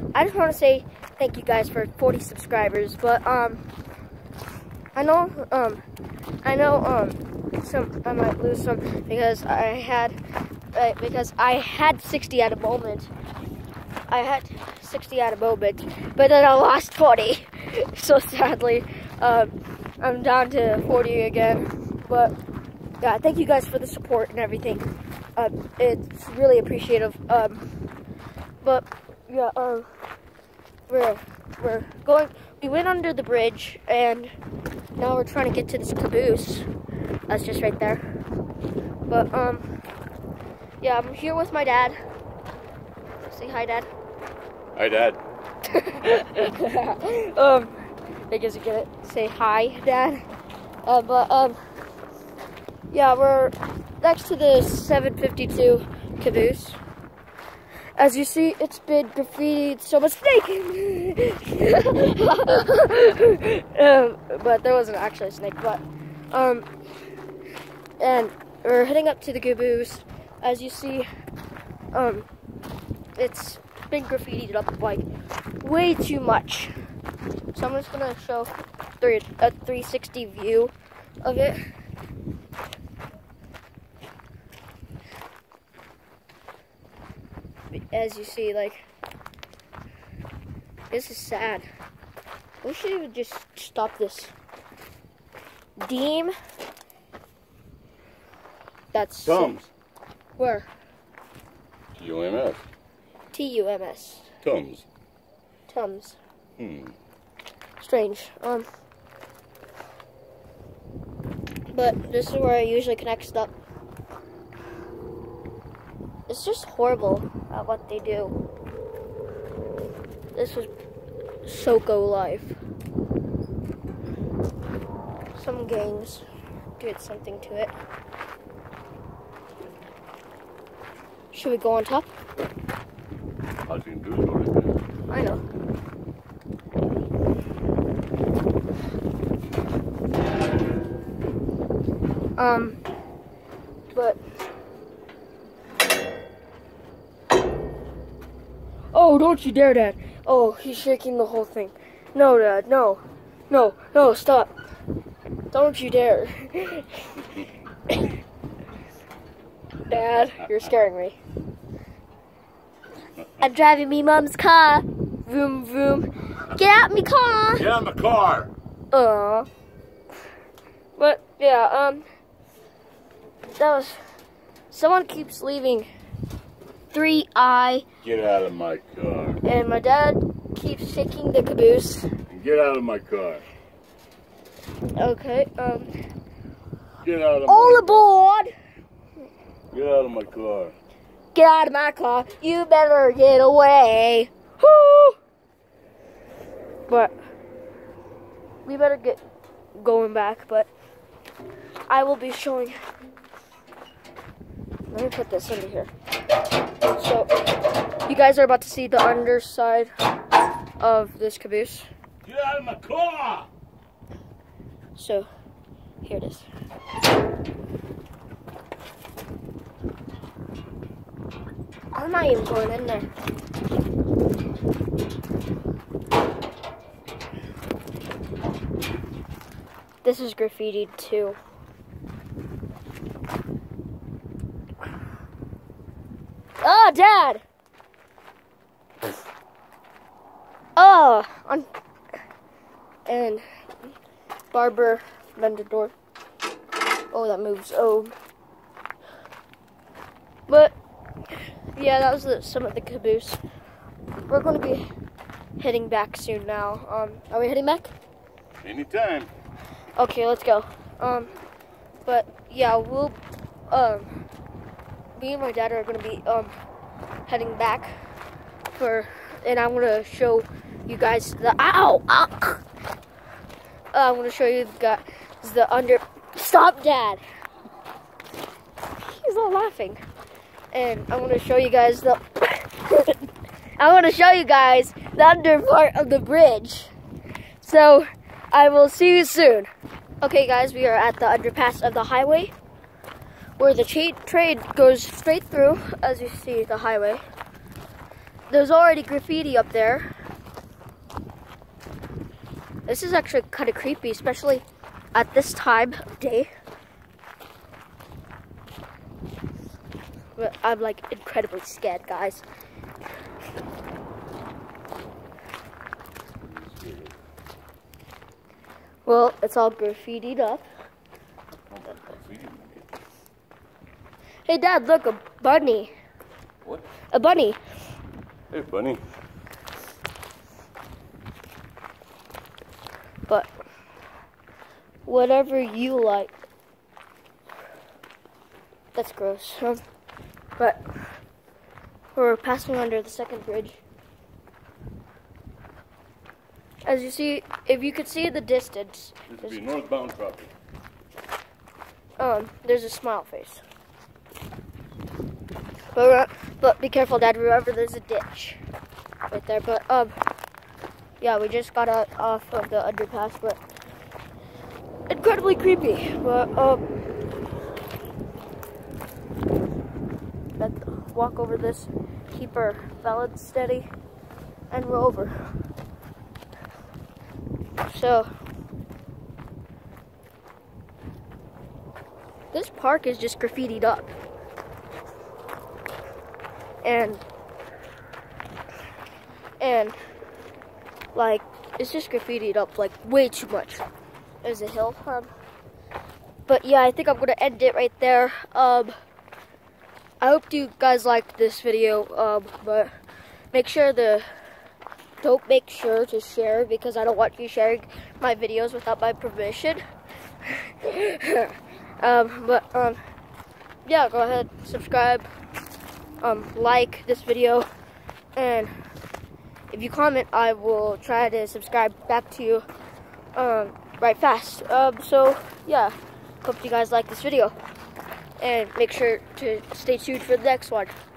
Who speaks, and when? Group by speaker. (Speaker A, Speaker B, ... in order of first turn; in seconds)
Speaker A: 0.1-3.6, 5.0-5.8, 6.4-10.2, 10.7-13.1, 14.1-22.4, 23.0-27.7, 28.6-29.9, 30.9-34.3, 35.0-36.7, 37.3-38.0, 39.1-39.6, 40.8-42.0, 43.2-43.9, 45.7-47.7, 48.3-50.2, 50.9-51.6, 52.9-56.8, 58.0-66.7, 68.0-71.1, 71.9-72.3, 73.2-75.1, 75.6-76.8, 77.5-81.6, 87.7-88.9, 90.9-91.7, 92.6-94.3, 95.8-96.3, 98.9-99.6, 100.4-100.7, 103.3-104.3, 105.7-106.2, 107.8-108.7, 111.7-113.5, 116.3-118.4, 120.3-120.7, 121.5-122.6, 125.3-126.2, 126.8-127.7, 131.3-132.1, 135.1-135.4, 142.4-142.8, 143.9-144.2, 148.9-154.5, 155.5-158.1, 159.9-161.2, 163.4-167.7, 168.9-169.5, 171.0-172.1, 173.6-174.0, 174.7-175.9, 176.9-177.8, 179.4-182.1, 184.9-185.9, 187.5-188.5, 191.3-195.2, 196.9-197.1, 198.7-199.2, 199.8-200.7, 201.9-202.8, 204.9-205.9, 206.9-207.3, 208.1-209.9, 210.8-211.9, 215.0-215.3, 216.0-216.5, 221.9-223.1, 230.0-231.4, 236.6-237.4, 240.8-241.7, 243.1-243.4, 244.5-245.9, 247.1-248.2, 250.5-250.8, 251.8-253.4, 254.3-254.8, 255.6-257.9, 260.0-261.3, 262.1-264.1, 265.2-266.5, 267.3-267.9, 268.7-272.6, 273.9-277.2, 279.0-280.0, 280.7-283.2, 283.8-286.9, 287.6-289.7, 290.2-292.5, 293.6-297.2, 298.5-300.1, 302.9-306.5, 310.4-312.4, 319.1-320.7, 324.5-325.9, 327.1-327.6, 335.1-336.3, 338.9-339.8, 340.6-340.8, 342.1-343.8, 346.9-349.6, 352.2-353.6, 355.9-358.6, 359.3-360.2, 361.2-363.6, 365.1-366.8, 370.6-373.9, 374.7-375.3, 377.9-378.3, 382.5-384.1, 386.8-387.2, 389.6-390.0, 391.1-393.8, 394.4-395.3, 396.5-398.9, 400.2-402.9, 403.5-404.2, 405.2-409.8, 410.4-413.0, 413.9-415.3, 416.2-417.7, 418.4-418.7, 419.7-422.6, 423.4-427.6, 428.4-430.9
Speaker B: 44.8-45.2, 99.2-99.7, 102.0-102.6, 104.4-104.9, 106.6-107.0, 133.7-134.8, 167.6-168.5, 178.0-179.4, 182.3-183.4, 187.0-188.1, 189.7-190.7, 212.3-213.5, 258.6-259.3, 316.3-317.1, 321.7-322.8, 328.5-329.0, 349.3-350.5